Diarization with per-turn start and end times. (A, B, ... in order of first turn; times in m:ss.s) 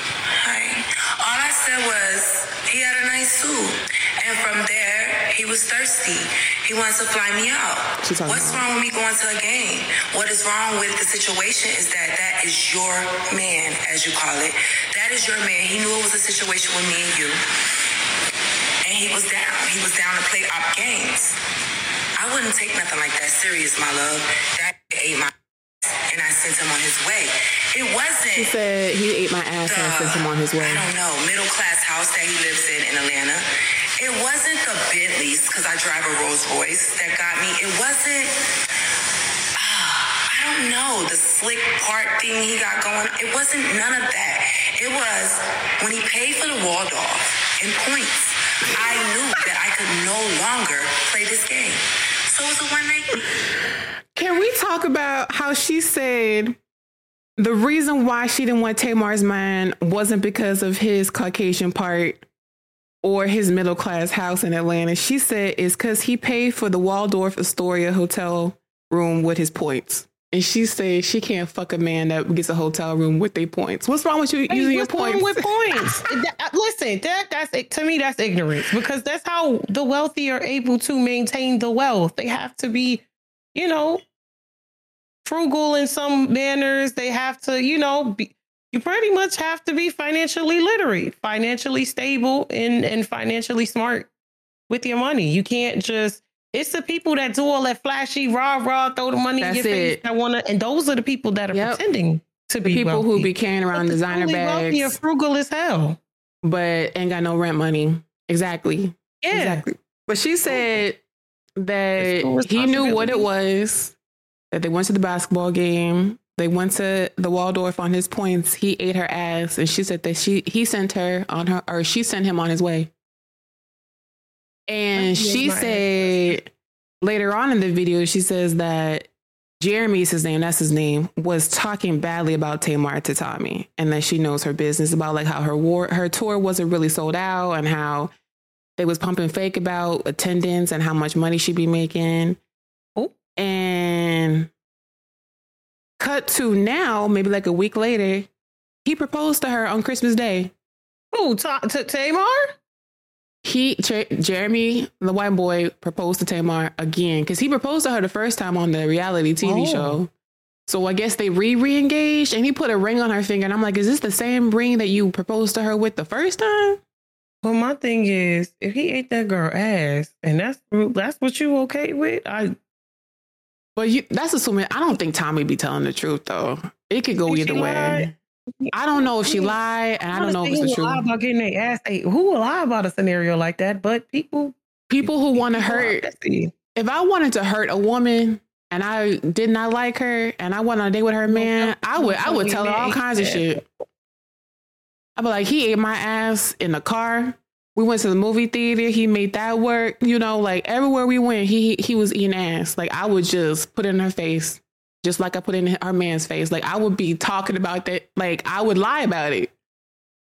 0:00.4-0:17.4 A
0:08.0-0:08.6 B
0:18.8-0:21.3 A
0:22.2-0:25.3 A
0:26.1-0:28.6 A
0:28.3-0:30.8 B
0:29.7-0:33.4 A
0:34.0-0:38.3 A
0:39.6-0:53.3 A
0:54.2-0:56.6 B
0:57.4-1:02.2 B
1:03.0-1:16.0 B
1:14.5-1:23.0 C
1:23.5-1:24.0 C
1:25.2-1:34.1 C
1:34.7-1:46.0 C
1:39.4-1:40.0 B
1:41.5-1:41.8 B
1:42.6-1:45.0 B
1:46.4-1:51.0 B
1:49.2-1:49.6 C
1:50.5-1:50.8 C
1:51.6-1:53.9 B
1:52.0-1:53.3 C
1:54.5-2:02.9 B
2:04.7-2:09.1 B
2:04.9-2:06.4 C
2:09.6-2:18.1 B
2:18.8-2:22.4 B
2:23.4-2:24.5 B
2:26.0-2:28.3 B
2:28.8-2:30.5 B
2:31.1-2:32.5 C
2:33.4-2:40.1 B
2:39.4-2:40.0 C
2:40.7-2:46.8 B
2:47.4-2:52.6 C
2:53.8-2:58.1 B
2:57.2-2:59.5 C
2:58.7-3:01.0 B
3:00.1-3:06.5 C
3:04.9-3:06.1 B
3:06.7-3:13.6 B
3:11.3-3:13.7 C
3:15.2-3:29.5 B